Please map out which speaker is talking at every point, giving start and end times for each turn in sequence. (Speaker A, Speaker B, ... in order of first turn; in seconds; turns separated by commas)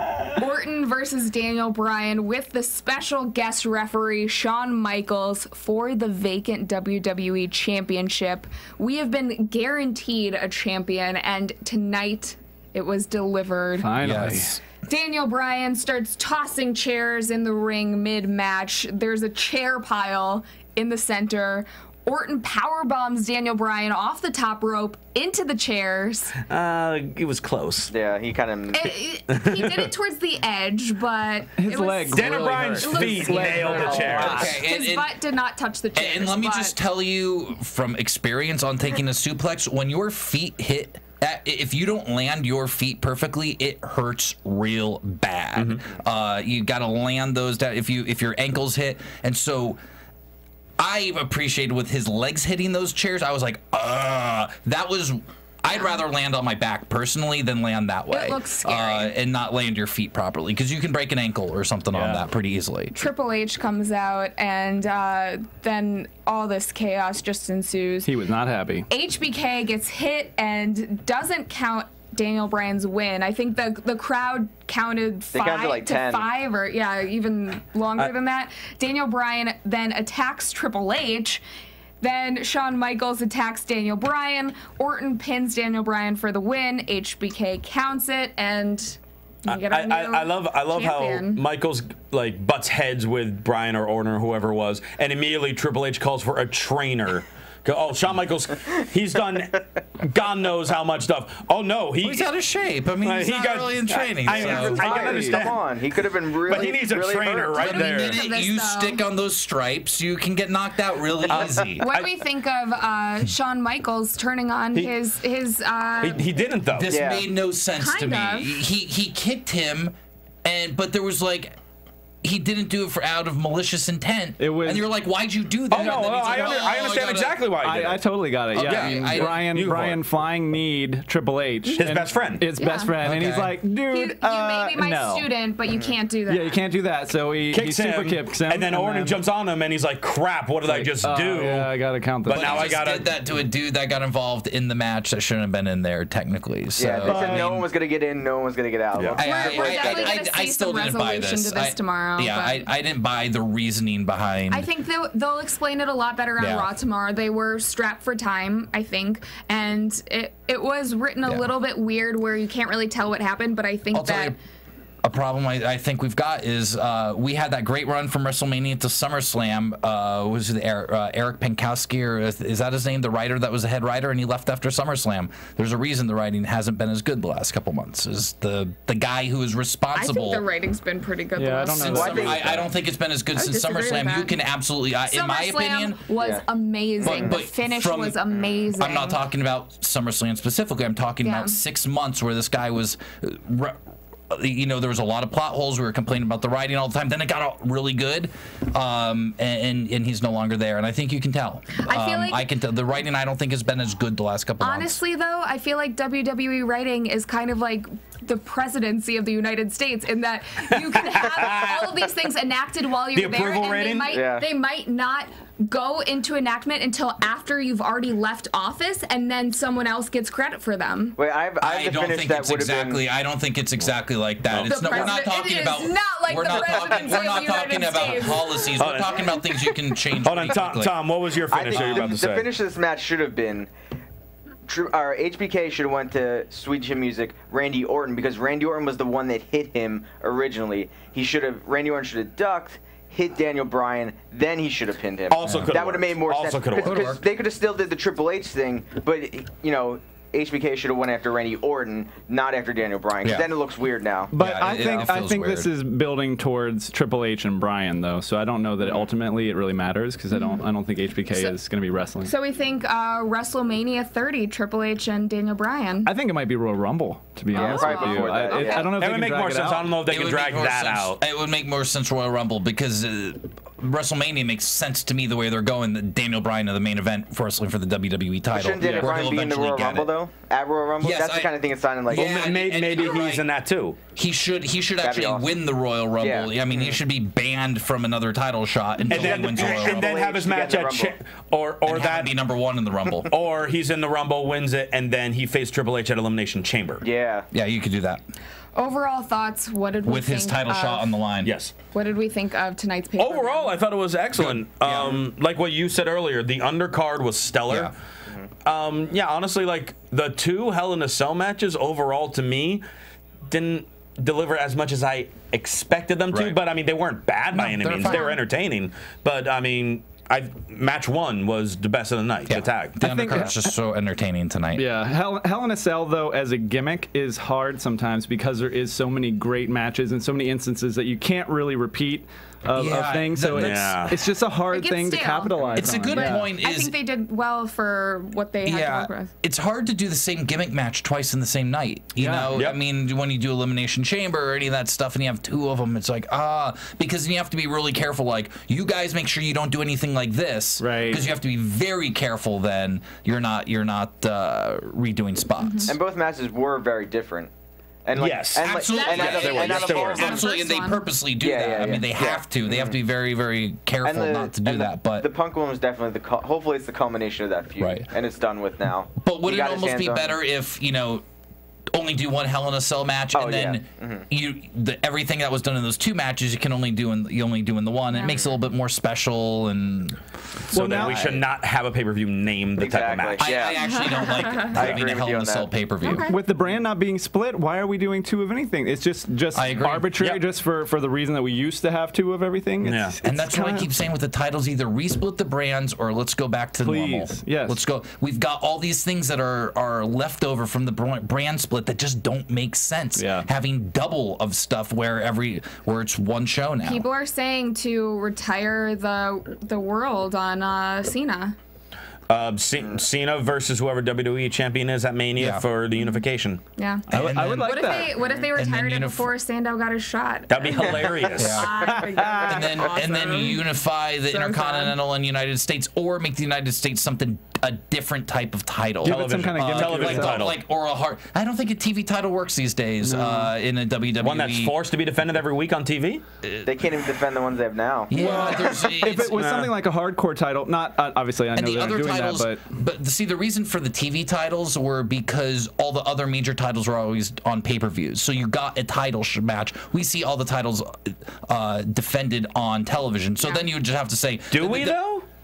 Speaker A: 0.3-14.0, Speaker B: 13.8-14.6, Speaker C: 14.0-14.6, Speaker A: 14.8-26.3, Speaker D: 26.5-27.9, Speaker E: 27.9-28.9, Speaker A: 28.7-36.8, Speaker D: 29.3-29.9, Speaker B: 31.6-34.6, Speaker D: 32.1-34.5, Speaker C: 34.1-35.1, Speaker C: 36.0-49.8, Speaker D: 45.5-45.8, Speaker C: 50.8-62.9, Speaker A: 58.1-59.1, Speaker B: 61.9-62.2, Speaker A: 62.9-68.1, Speaker B: 68.0-68.9, Speaker A: 68.9-81.4, Speaker E: 75.3-76.3, Speaker A: 82.0-91.4, Speaker D: 89.5-102.3, Speaker C: 102.0-104.9, Speaker D: 103.0-105.6, Speaker B: 104.3-105.4, Speaker E: 104.7-107.7, Speaker D: 106.3-108.2, Speaker C: 107.5-111.8, Speaker A: 107.6-109.0, Speaker D: 111.3-112.1, Speaker A: 111.8-116.2, Speaker D: 116.0-116.9, Speaker C: 116.7-121.6, Speaker E: 116.8-117.3, Speaker A: 117.7-118.6, Speaker C: 122.2-127.4, Speaker B: 124.4-124.9, Speaker D: 125.7-128.0, Speaker B: 127.6-135.3, Speaker C: 128.5-129.9, Speaker D: 128.5-129.9, Speaker D: 131.8-132.4, Speaker A: 132.6-132.9, Speaker C: 133.0-133.6, Speaker A: 133.9-136.5, Speaker E: 135.7-136.0, Speaker B: 136.3-139.2, Speaker D: 137.5-141.7, Speaker B: 140.6-142.8, Speaker D: 142.2-143.1, Speaker C: 142.3-147.7, Speaker E: 146.8-150.2, Speaker B: 147.0-147.5, Speaker C: 149.2-154.7, Speaker A: 149.2-152.7, Speaker A: 154.5-164.3, Speaker C: 156.4-156.7, Speaker C: 163.9-164.4, Speaker C: 165.0-180.4, Speaker A: 179.9-182.3, Speaker B: 181.3-182.4, Speaker C: 181.7-186.0, Speaker E: 181.9-182.7, Speaker A: 183.3-184.4, Speaker A: 185.1-189.2, Speaker E: 186.2-186.4, Speaker E: 187.0-187.4, Speaker C: 187.0-193.8, Speaker A: 191.2-191.6, Speaker C: 194.3-205.0, Speaker A: 201.8-202.4, Speaker A: 204.6-221.2, Speaker D: 211.0-211.8, Speaker D: 213.1-214.1, Speaker E: 214.1-214.4, Speaker E: 221.2-223.0, Speaker C: 221.6-231.0, Speaker D: 224.5-225.0, Speaker A: 224.7-228.7, Speaker D: 228.8-229.3, Speaker D: 230.2-232.5, Speaker E: 231.5-233.7, Speaker C: 231.7-232.2, Speaker E: 234.7-255.1, Speaker D: 245.3-247.1, Speaker C: 245.4-245.8, Speaker C: 246.8-247.2, Speaker C: 253.2-253.5, Speaker B: 254.3-262.3, Speaker C: 254.4-255.7, Speaker A: 260.3-260.6, Speaker A: 261.3-261.6, Speaker A: 262.2-266.1, Speaker B: 266.0-269.9, Speaker A: 267.5-268.9, Speaker E: 267.5-269.0, Speaker D: 269.0-271.2, Speaker C: 270.1-280.1, Speaker E: 278.5-282.3, Speaker B: 278.8-279.3, Speaker C: 281.0-281.5, Speaker C: 282.1-283.5, Speaker D: 282.1-284.0, Speaker C: 284.1-290.1, Speaker E: 285.0-285.5, Speaker E: 286.2-287.0, Speaker D: 289.1-292.3, Speaker E: 289.1-291.1, Speaker C: 291.9-293.3, Speaker D: 293.3-297.0, Speaker E: 297.0-297.5, Speaker C: 297.5-298.2, Speaker A: 298.8-301.1, Speaker C: 300.0-301.6, Speaker D: 301.4-301.7, Speaker A: 301.9-303.8, Speaker D: 303.2-307.9, Speaker C: 304.4-305.2, Speaker C: 307.7-307.9, Speaker D: 308.6-312.8, Speaker D: 313.5-323.0, Speaker C: 316.3-316.6, Speaker C: 317.5-318.3, Speaker A: 318.0-318.4, Speaker C: 322.5-324.9, Speaker B: 323.0-323.7, Speaker B: 324.8-336.5, Speaker C: 332.7-334.1, Speaker D: 333.5-334.2, Speaker A: 334.7-339.3, Speaker C: 335.8-336.9, Speaker C: 338.6-356.0, Speaker B: 342.1-342.6, Speaker B: 350.8-351.2, Speaker A: 355.6-355.9, Speaker E: 355.8-357.5, Speaker E: 358.1-360.4, Speaker D: 358.1-360.4, Speaker C: 358.6-365.3, Speaker A: 358.9-361.0, Speaker E: 361.4-363.0, Speaker E: 364.0-370.4, Speaker C: 367.8-368.1, Speaker C: 369.2-371.2, Speaker C: 371.9-381.4, Speaker E: 373.3-374.2, Speaker A: 378.1-378.4, Speaker D: 380.7-383.7, Speaker B: 380.7-381.2, Speaker E: 382.8-385.7, Speaker C: 383.4-386.2, Speaker A: 383.9-384.7, Speaker A: 386.0-386.4, Speaker B: 386.2-393.9, Speaker C: 389.5-390.1, Speaker D: 389.8-390.4, Speaker D: 392.8-393.1, Speaker C: 393.2-407.0, Speaker B: 396.8-397.8, Speaker B: 403.2-403.5, Speaker A: 406.8-411.6, Speaker D: 412.3-416.6, Speaker C: 415.4-415.6, Speaker A: 416.8-423.6, Speaker B: 417.1-418.2, Speaker C: 417.1-419.3, Speaker D: 420.5-421.6, Speaker E: 420.8-421.6, Speaker C: 421.3-434.7, Speaker A: 424.2-424.9, Speaker B: 429.0-430.5, Speaker D: 429.0-430.6, Speaker B: 433.0-433.5, Speaker D: 434.2-436.2, Speaker C: 436.4-436.8, Speaker E: 436.6-438.8, Speaker C: 438.1-439.5, Speaker B: 438.1-442.6, Speaker D: 438.2-439.7, Speaker C: 441.5-455.0, Speaker D: 454.5-455.2